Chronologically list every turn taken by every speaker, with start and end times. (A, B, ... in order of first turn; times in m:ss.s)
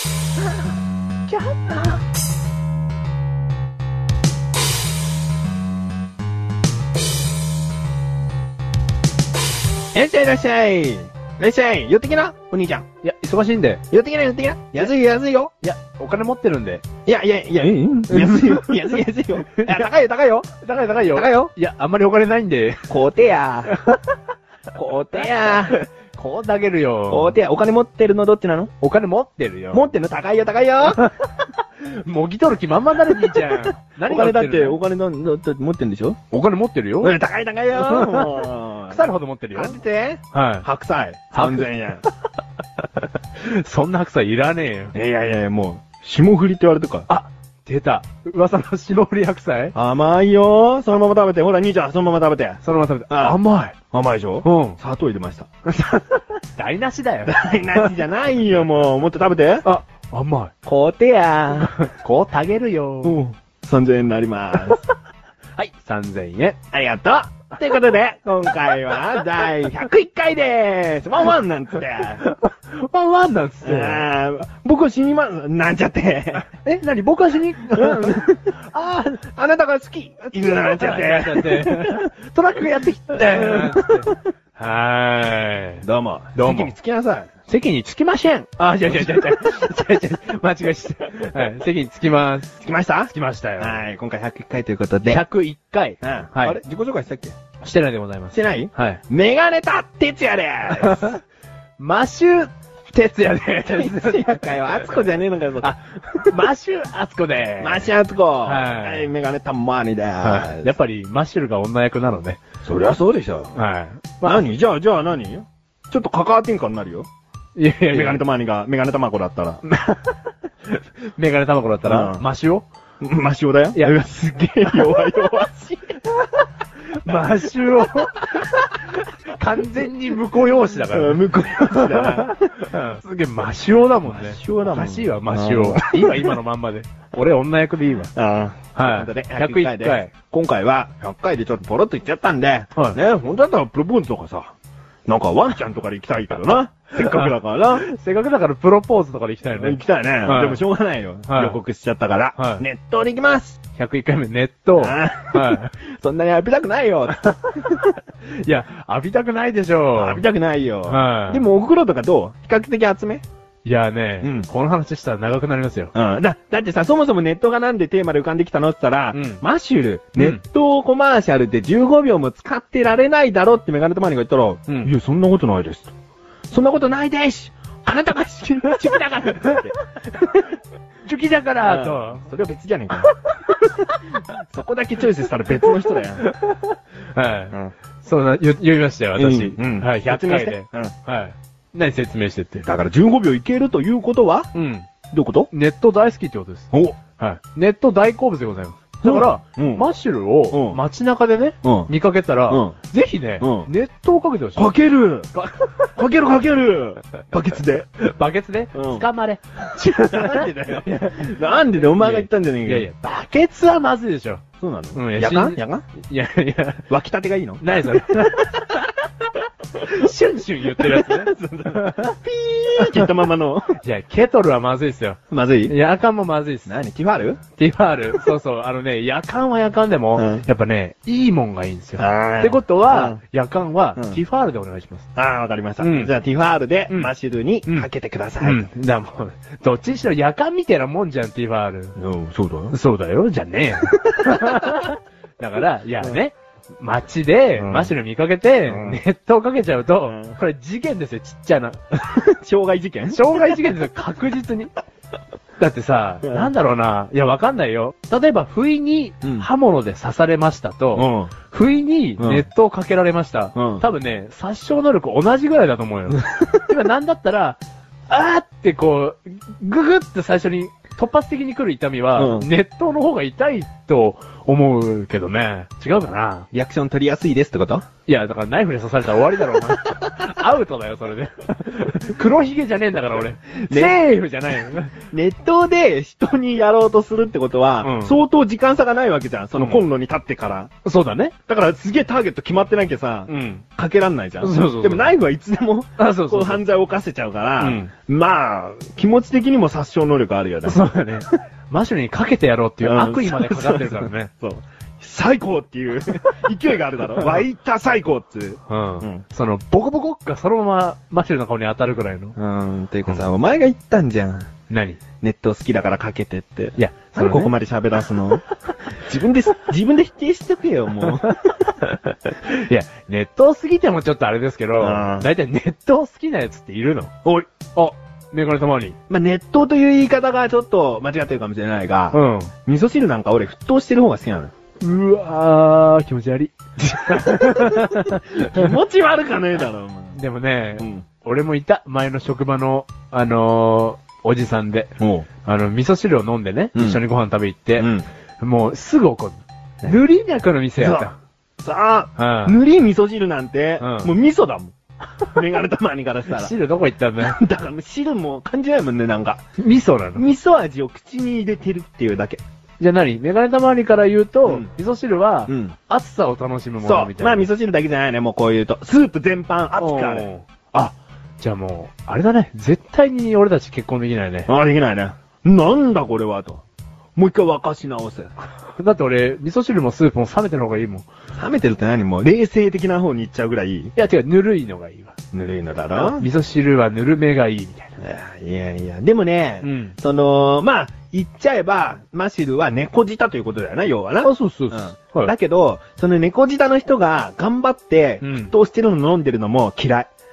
0:01.4-0:02.0 A
0:09.9-0:12.9 A
0:13.0-0:13.8 B
0:13.9-0:15.5 A
0:15.6-0:16.8 B
0:17.1-0:20.5 A
0:18.1-0:19.9 B
0:20.6-0:22.9 B
0:21.0-0:21.5 A
0:22.9-0:23.7 A
0:23.7-0:24.0 B
0:24.8-0:25.8 A
0:25.4-0:27.4 B
0:27.1-0:28.7 A
0:28.8-0:29.9 B
0:29.7-0:31.1 A
0:30.9-0:34.8 B
0:33.3-0:36.2 A
0:36.3-0:37.2 B
0:37.0-0:42.0 A
0:37.7-0:39.8 B
0:40.3-0:40.7 B
0:41.3-0:41.7 B
0:43.0-0:44.9 B
0:44.9-0:47.1 A
0:47.1-0:49.8 B
0:49.7-0:53.4 A
0:52.6-0:53.8 B
0:53.9-0:55.5 A
0:54.4-0:54.8 B
0:55.7-0:57.4 B
0:57.2-0:59.6 A
0:59.6-1:00.5 B
1:00.6-1:01.8 A
1:01.6-1:03.2 B
1:03.0-1:04.8 A
1:05.6-1:06.6 B
1:06.7-1:12.2 A
1:12.0-1:14.1 B
1:13.6-1:16.5 A
1:16.5-1:19.2 B
1:17.7-1:18.6 A
1:19.1-1:22.1 A
1:20.3-1:26.7 B
1:23.1-1:24.2 A
1:25.8-1:27.3 A
1:27.5-1:32.5 B
1:28.9-1:29.4 A
1:32.6-1:35.2 A
1:33.1-1:33.8 B
1:35.1-1:36.6 B
1:36.0-1:37.4 A
1:37.6-1:39.0 B
1:38.3-1:41.2 A
1:40.7-1:41.2 B
1:41.8-1:45.1 B
1:43.6-1:46.4 A
1:45.6-1:47.9 B
1:47.6-1:50.7 A
1:48.4-1:49.1 B
1:50.2-1:52.4 B
1:52.6-1:53.5 A
1:53.5-1:54.4 B
1:54.2-1:57.1 A
1:57.6-1:58.2 B
1:57.9-1:59.6 A
1:59.7-2:02.7 B
2:01.8-2:02.2 A
2:03.0-2:06.0 A
2:04.7-2:04.9 B
2:07.0-2:18.1 B
2:10.9-2:12.4 A
2:14.1-2:16.4 A
2:18.1-2:24.5 A
2:18.8-2:20.1 B
2:25.1-2:27.8 A
2:27.0-2:30.6 B
2:29.5-2:33.6 A
2:31.3-2:31.6 B
2:32.4-2:32.6 B
2:33.8-2:35.7 B
2:34.8-2:38.0 A
2:37.3-2:40.2 B
2:40.0-2:43.2 A
2:40.9-2:41.5 B
2:43.6-2:45.9 B
2:44.2-2:44.5 A
2:46.0-2:55.9 A
2:49.1-2:49.4 B
2:50.2-2:50.4 B
2:56.5-3:00.5 A
3:01.0-3:02.3 B
3:01.6-3:03.1 A
3:03.2-3:04.0 B
3:04.4-3:06.2 A
3:05.7-3:12.7 B
3:09.2-3:10.9 A
3:12.6-3:14.5 A
3:14.5-3:14.9 B
3:15.1-3:15.5 A
3:15.5-3:24.7 B
3:16.7-3:17.0 A
3:19.0-3:19.9 A
3:20.5-3:20.8 A
3:21.6-3:21.9 A
3:22.5-3:22.8 A
3:23.4-3:23.7 A
3:24.6-3:25.3 A
3:25.3-3:25.9 B
3:26.0-3:27.9 A
3:28.0-3:34.4 B
3:28.7-3:29.1 A
3:30.0-3:32.9 A
3:34.6-3:35.9 A
3:35.0-3:36.9 B
3:36.9-3:38.6 A
3:37.6-3:38.8 B
3:39.8-3:42.2 B
3:40.6-3:43.8 A
3:42.8-3:43.2 B
3:43.8-3:46.8 B
3:45.3-3:45.8 A
3:46.7-3:47.4 A
3:47.6-3:55.0 B
3:50.2-3:50.4 A
3:52.0-3:53.2 A
3:55.2-3:58.7 A
3:55.8-3:56.1 B
3:58.4-4:02.0 B
4:02.0-4:02.8 A
4:02.7-4:12.0 B
4:03.9-4:04.9 A
4:07.6-4:07.9 A
4:08.7-4:09.0 A
4:10.0-4:10.4 A
4:12.0-4:13.5 A
4:13.1-4:14.7 B
4:15.6-4:36.5 B
4:16.2-4:16.5 A
4:19.2-4:19.5 A
4:20.9-4:21.3 A
4:22.2-4:22.5 A
4:23.6-4:23.9 A
4:32.1-4:32.5 A
4:36.5-4:37.8 A
4:38.1-4:45.0 B
4:43.7-4:44.0 A
4:45.0-4:50.7 A
4:47.8-4:48.2 B
4:49.6-4:49.8 B
4:50.8-4:51.4 B
4:51.5-5:00.9 A
4:53.3-4:53.6 B
4:54.4-4:55.2 B
4:56.0-4:56.6 B
4:57.6-4:57.9 B
5:00.6-5:04.3 B
5:02.8-5:09.2 A
5:08.7-5:12.4 B
5:12.4-5:14.5 A
5:14.7-5:15.0 B
5:15.2-5:18.4 A
5:16.8-5:17.6 B
5:19.0-5:21.4 A
5:21.0-5:27.1 B
5:24.8-5:25.3 A
5:27.8-5:29.0 B
5:29.1-5:34.5 A
5:32.1-5:32.5 B
5:34.8-5:38.7 B
5:36.9-5:40.2 A
5:40.1-5:47.9 B
5:40.8-5:41.1 A
5:45.0-5:45.3 A
5:46.8-5:47.0 A
5:47.8-5:48.1 A
5:48.4-5:51.2 B
5:50.8-5:51.1 A
5:51.6-5:56.5 A
5:52.2-5:52.6 B
5:53.8-5:54.1 B
5:56.3-5:57.4 B
5:57.2-5:59.4 A
5:59.6-6:00.3 B
6:00.2-6:02.4 A
6:02.8-6:07.5 B
6:05.5-6:05.8 A
6:06.8-6:10.3 A
6:09.8-6:14.5 B
6:14.5-6:16.6 A
6:17.2-6:18.3 A
6:18.7-6:21.1 B
6:21.4-6:23.9 A
6:24.0-6:25.2 B
6:25.3-6:26.3 A
6:25.9-6:28.0 B
6:28.0-6:40.1 A
6:29.6-6:30.0 B
6:34.2-6:35.3 B
6:38.2-6:38.5 B